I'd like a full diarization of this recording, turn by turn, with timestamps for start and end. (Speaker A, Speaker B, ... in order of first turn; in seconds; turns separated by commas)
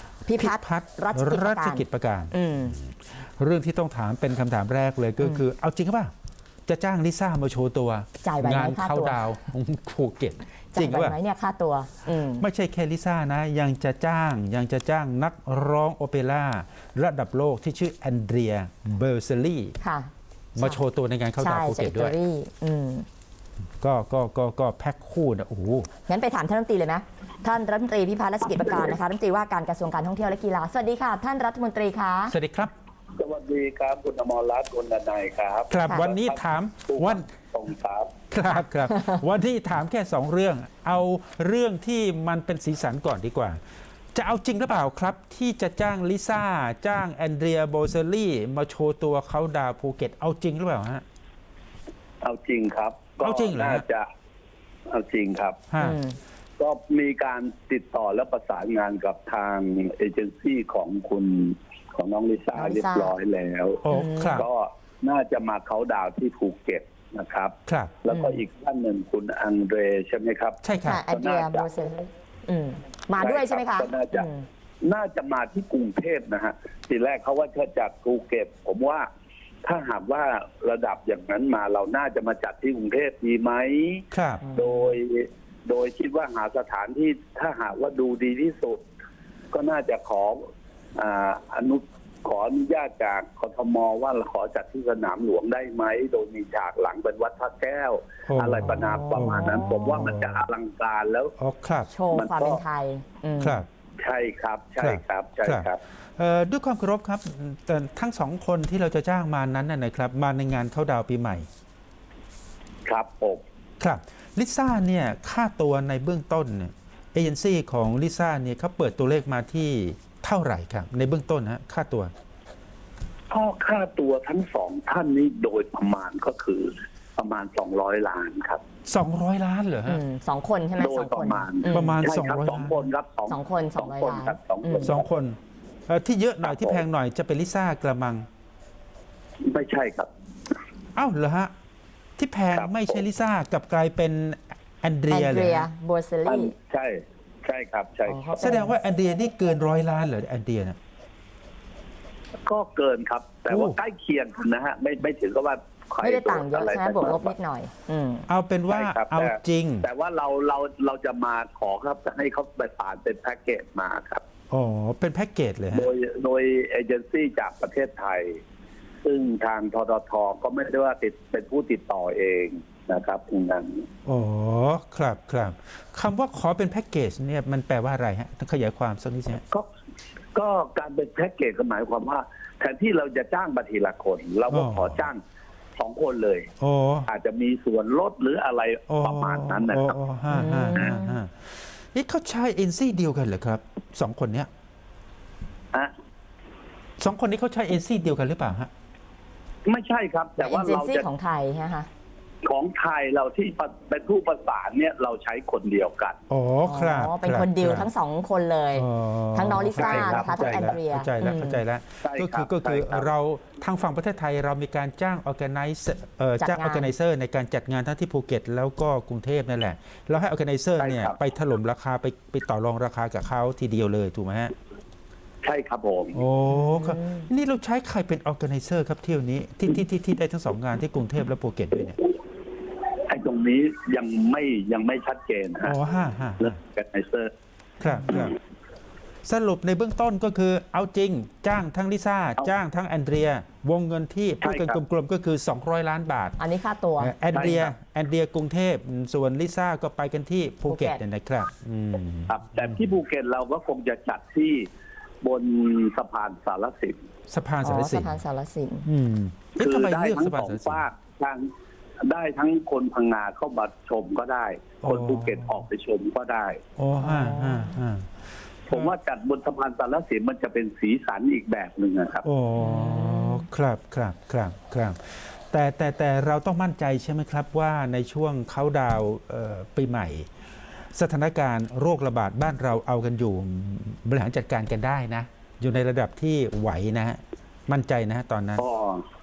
Speaker A: 0.2-2.8, Speaker B: 0.3-6.1, Speaker B: 6.7-11.2, Speaker A: 8.2-9.4, Speaker A: 10.7-12.4, Speaker B: 12.3-19.8, Speaker A: 19.8-20.8, Speaker B: 20.5-22.1, Speaker A: 21.4-23.1, Speaker B: 23.8-25.9, Speaker A: 26.1-32.3, Speaker B: 32.3-32.7, Speaker C: 33.1-38.1, Speaker B: 35.7-37.3, Speaker B: 38.3-43.6, Speaker A: 38.5-39.2, Speaker B: 44.1-51.0, Speaker C: 52.2-54.1, Speaker B: 53.2-53.8, Speaker C: 54.9-55.6, Speaker B: 55.7-56.0, Speaker A: 55.8-56.2, Speaker C: 56.6-71.7, Speaker A: 62.5-63.1, Speaker B: 63.8-64.5, Speaker A: 63.9-64.4, Speaker B: 67.7-68.0, Speaker A: 68.1-68.4, Speaker B: 70.6-71.0, Speaker A: 70.8-74.5, Speaker C: 73.2-74.3, Speaker C: 74.8-79.1, Speaker C: 79.6-88.8, Speaker B: 84.1-84.4, Speaker A: 84.4-84.9, Speaker C: 89.5-90.4, Speaker C: 91.0-101.3, Speaker B: 98.3-100.4, Speaker A: 98.7-99.9, Speaker B: 101.4-101.9, Speaker A: 101.9-103.6, Speaker C: 102.1-102.6, Speaker B: 103.4-103.7, Speaker C: 104.0-105.8, Speaker B: 104.8-111.5, Speaker C: 112.8-113.4, Speaker B: 113.8-122.1, Speaker C: 123.3-128.6, Speaker B: 128.8-130.0, Speaker A: 129.8-132.0, Speaker C: 130.8-135.0, Speaker B: 131.7-132.8, Speaker A: 133.3-135.0, Speaker B: 134.8-138.3, Speaker C: 136.4-136.8, Speaker C: 139.4-140.1, Speaker B: 140.9-141.5, Speaker B: 142.2-145.7, Speaker C: 142.5-143.0, Speaker A: 145.1-146.5, Speaker C: 146.2-148.3, Speaker A: 148.1-148.7, Speaker B: 148.4-150.8, Speaker C: 152.4-157.3, Speaker B: 153.5-153.8, Speaker A: 156.0-158.3, Speaker B: 158.3-159.8, Speaker C: 158.7-164.2, Speaker B: 164.5-165.9, Speaker C: 165.7-168.4, Speaker C: 169.0-173.8, Speaker B: 174.1-179.4, Speaker C: 180.3-185.2, Speaker B: 184.5-185.1, Speaker C: 185.8-186.5, Speaker B: 186.6-187.1, Speaker C: 187.1-189.9, Speaker B: 188.9-194.5, Speaker A: 190.3-191.2, Speaker B: 197.0-198.7, Speaker C: 199.6-201.1, Speaker A: 200.4-201.9, Speaker C: 202.4-206.2, Speaker B: 206.3-207.9, Speaker A: 206.6-211.6, Speaker B: 208.7-224.5, Speaker C: 209.7-210.8, Speaker C: 212.0-213.1, Speaker A: 216.4-216.9, Speaker C: 220.8-221.2, Speaker C: 225.4-226.2, Speaker B: 226.1-232.0, Speaker A: 226.5-227.3, Speaker C: 233.1-235.8, Speaker B: 235.6-236.6, Speaker C: 236.4-237.3, Speaker B: 237.8-238.4, Speaker B: 239.2-246.4, Speaker C: 244.4-244.8, Speaker A: 246.4-247.2, Speaker B: 247.0-252.7, Speaker C: 247.3-247.7, Speaker A: 250.7-251.0, Speaker C: 252.3-254.7, Speaker C: 255.2-257.0, Speaker B: 257.3-258.2, Speaker A: 257.6-258.9, Speaker B: 258.9-260.8, Speaker C: 259.6-261.5, Speaker C: 262.0-266.6, Speaker B: 264.8-265.6, Speaker B: 266.8-268.1, Speaker A: 267.0-267.8, Speaker C: 268.7-272.2, Speaker B: 272.2-288.6, Speaker A: 272.6-273.4, Speaker C: 288.6-289.0